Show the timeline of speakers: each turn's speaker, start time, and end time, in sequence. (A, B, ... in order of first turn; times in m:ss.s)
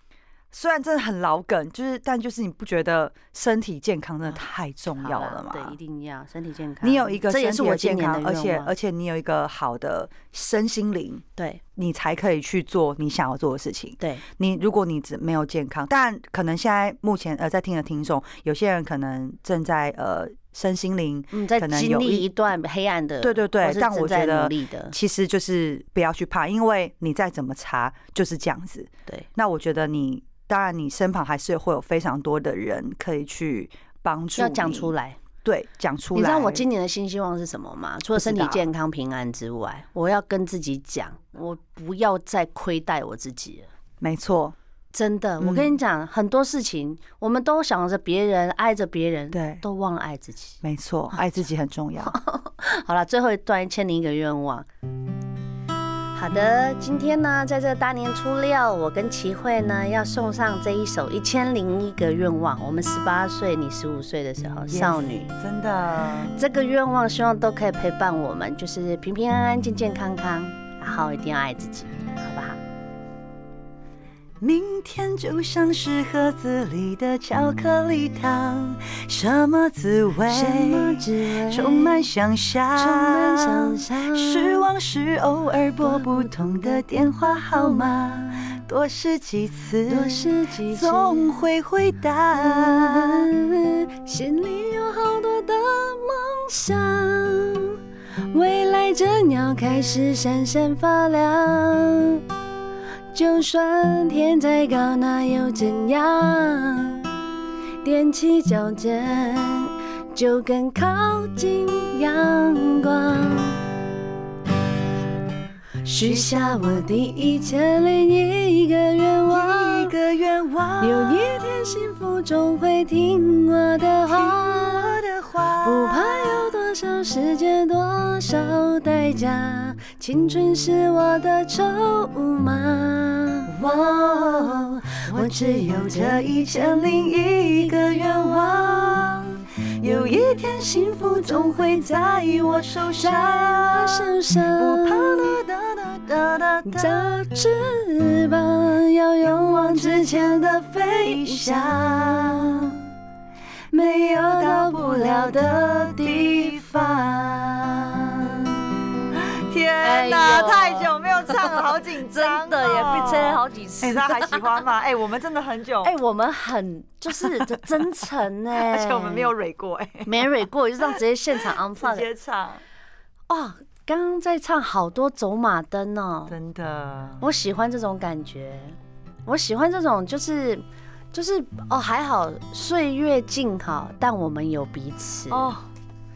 0:00.5-0:05.8 A
0:05.0-0:08.7 B
0:06.8-0:11.2 A
0:11.4-0:11.6 B
0:11.8-0:22.3 A
0:21.3-0:25.0 B
0:23.2-0:34.9 A
0:34.4-0:35.2 B
0:35.4-0:36.6 A
0:36.2-0:43.7 B
0:38.2-0:38.6 A
0:44.0-0:44.6 A
0:44.9-0:50.6 B
0:45.4-0:45.8 A
0:49.3-0:49.6 A
0:50.6-0:52.2 A
0:52.1-0:54.7 B
0:56.2-1:05.3 B
1:04.7-1:06.4 A
1:06.2-1:12.6 B
1:14.4-1:33.3 A
1:20.3-1:22.1 B
1:22.8-1:24.6 B
1:25.8-1:26.8 B
1:29.9-1:31.4 B
1:32.4-1:37.8 B
1:38.3-1:42.2 B
1:43.1-1:47.1 B
1:47.8-1:53.6 B
1:55.8-1:59.9 B
1:56.0-1:56.9 A
1:59.3-2:01.6 A
2:00.8-2:05.0 B
2:04.1-2:06.5 A
2:05.6-2:13.5 B
2:13.5-2:27.1 A
2:15.0-2:16.7 B
2:23.0-2:25.4 B
2:26.6-2:32.8 B
2:29.2-2:32.8 A
2:33.7-2:38.0 A
2:33.8-2:36.8 B
2:37.6-2:38.6 B
2:39.1-2:46.0 A
2:39.8-2:44.6 B
2:45.8-2:49.3 B
2:47.1-2:47.8 A
2:48.6-2:52.6 A
2:50.1-2:52.1 B
2:53.3-2:56.4 B
2:56.3-2:57.2 A
2:57.2-3:05.6 B
3:05.3-3:05.6 A